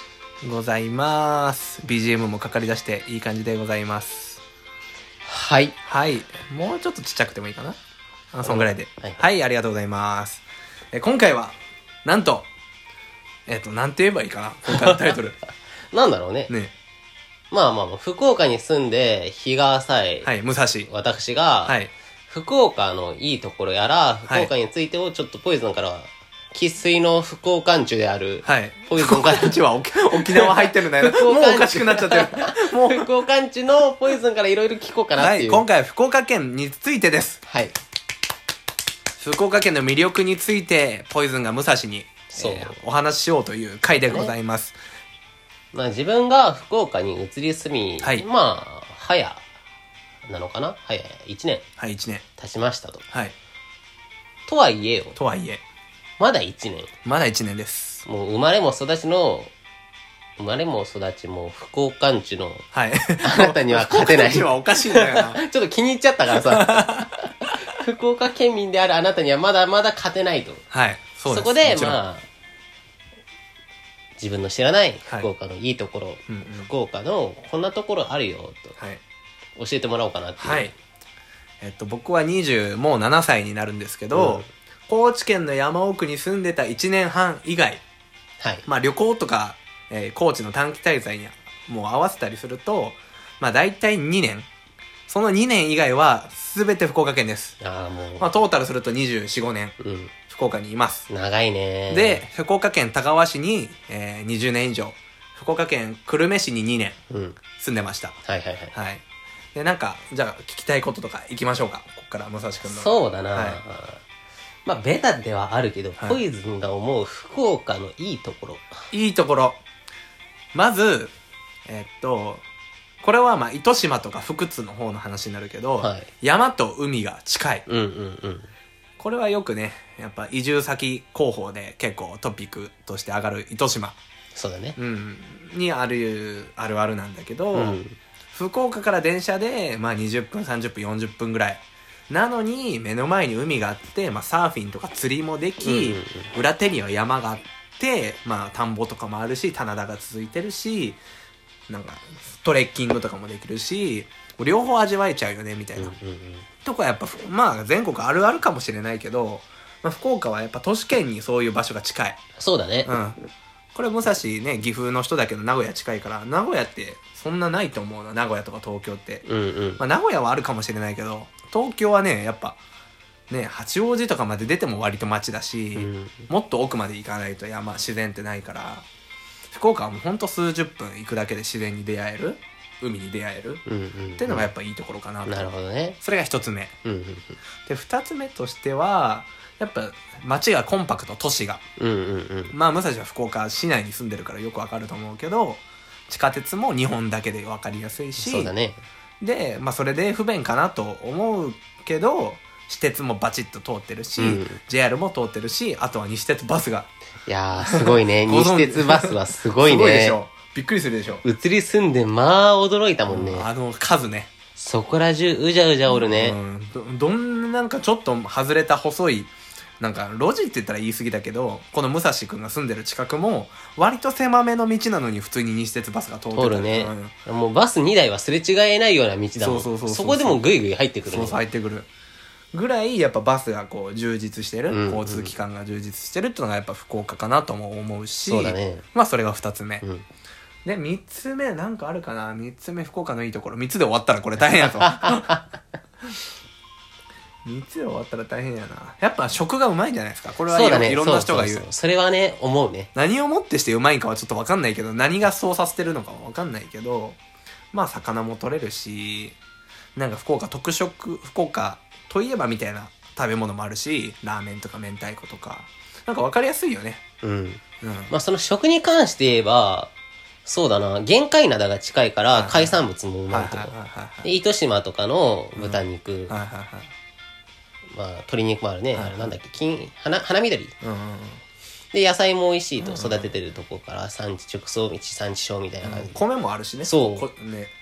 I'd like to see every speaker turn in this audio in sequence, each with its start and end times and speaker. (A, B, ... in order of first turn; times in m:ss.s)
0:00.4-0:04.4 A
0:05.3-0:05.7 B
0:05.8-0:07.8 A
0:08.3-0:12.5 A
0:08.4-0:09.2 B
0:13.5-0:15.4 A
0:14.8-0:15.1 B
0:15.9-0:16.5 B
0:17.5-0:20.3 B
0:20.2-0:20.9 A
0:20.8-0:21.8 B
0:21.6-0:21.9 A
0:22.3-0:35.6 B
0:28.4-0:33.1 A
0:35.2-0:37.4 A
0:37.5-0:37.7 B
0:39.2-0:44.8 A
0:42.3-0:42.8 B
0:44.1-0:44.3 B
0:45.7-0:49.4 B
0:48.0-0:48.2 A
0:50.2-0:51.6 B
0:51.8-0:52.2 A
0:52.4-0:53.0 B
0:54.5-0:55.2 B
0:55.2-0:55.6 A
0:56.2-0:56.9 B
0:57.0-0:58.0 A
0:58.0-0:59.5 B
1:00.4-1:02.6 B
1:02.7-1:05.4 A
1:03.2-1:07.0 B
1:06.3-1:07.1 A
1:07.7-1:10.6 B
1:10.7-1:12.0 A
1:11.3-1:12.2 B
1:14.2-1:18.8 B
1:16.3-1:16.7 A
1:19.6-1:20.7 B
1:20.4-1:20.7 A
1:21.6-1:27.8 A
1:24.1-1:24.4 B
1:28.6-1:34.5 A
1:35.1-1:37.6 A
1:37.6-1:38.3 B
1:38.2-1:39.8 A
1:39.8-1:40.1 B
1:40.3-1:41.1 A
1:41.1-1:42.2 B
1:41.9-1:47.0 A
1:47.1-1:47.4 B
1:47.6-1:48.2 A
1:48.2-1:48.7 B
1:48.7-1:49.0 A
1:49.5-1:53.6 A
1:52.6-1:54.0 B
1:54.6-1:58.8 B
1:58.9-1:59.6 A
2:00.5-2:01.1 A
2:01.7-2:02.4 A
2:03.0-2:07.6 A
2:05.8-2:06.1 B
2:07.6-2:08.5 B
2:09.0-2:14.0 A
2:14.4-2:14.8 B
2:14.8-2:17.8 A
2:17.5-2:18.0 B
2:18.3-2:31.0 A
2:25.6-2:26.3 B
2:31.7-2:36.0 A
2:35.8-2:36.5 B
2:36.6-2:42.2 A
2:42.4-2:42.9 B
2:42.8-2:43.2 A
2:43.7-2:49.2 A
2:49.2-2:49.8 B
2:49.8-2:52.6 A
2:53.3-2:58.8 A
2:55.7-2:56.3 B
2:59.5-3:03.6 A
3:03.6-3:04.5 B
3:04.2-3:06.7 A
3:05.2-3:06.0 B
3:06.8-3:07.4 B
3:07.6-3:11.6 A
3:11.8-3:12.5 B
3:12.5-3:18.5 A
3:18.2-3:18.8 B
3:19.2-3:26.9 A
3:24.2-3:24.6 B
3:27.2-3:30.2 B
3:27.7-3:31.2 A
3:31.2-3:33.5 B
3:33.1-3:34.3 A
3:34.6-3:36.4 B
3:35.9-3:47.1 A
3:46.3-3:51.4 B
3:49.4-3:50.4 A
3:51.0-3:51.9 A
3:52.5-3:59.8 A
3:54.7-3:55.3 B
3:58.2-3:58.8 B
4:00.6-4:05.4 A
4:07.4-4:11.6 A
4:10.5-4:12.9 B
4:13.0-4:17.2 A
4:17.7-4:19.4 A
4:20.0-4:27.0 A
4:27.2-4:29.9 B
4:27.8-4:28.1 A
4:30.4-4:36.4 B
4:32.3-4:34.3 A
4:35.6-4:36.9 A
4:37.9-4:40.7 B
4:38.9-4:39.3 A
4:40.8-4:41.4 A
4:41.9-4:46.2 B
4:42.8-4:43.4 A
4:45.8-4:47.7 A
4:46.8-4:47.3 B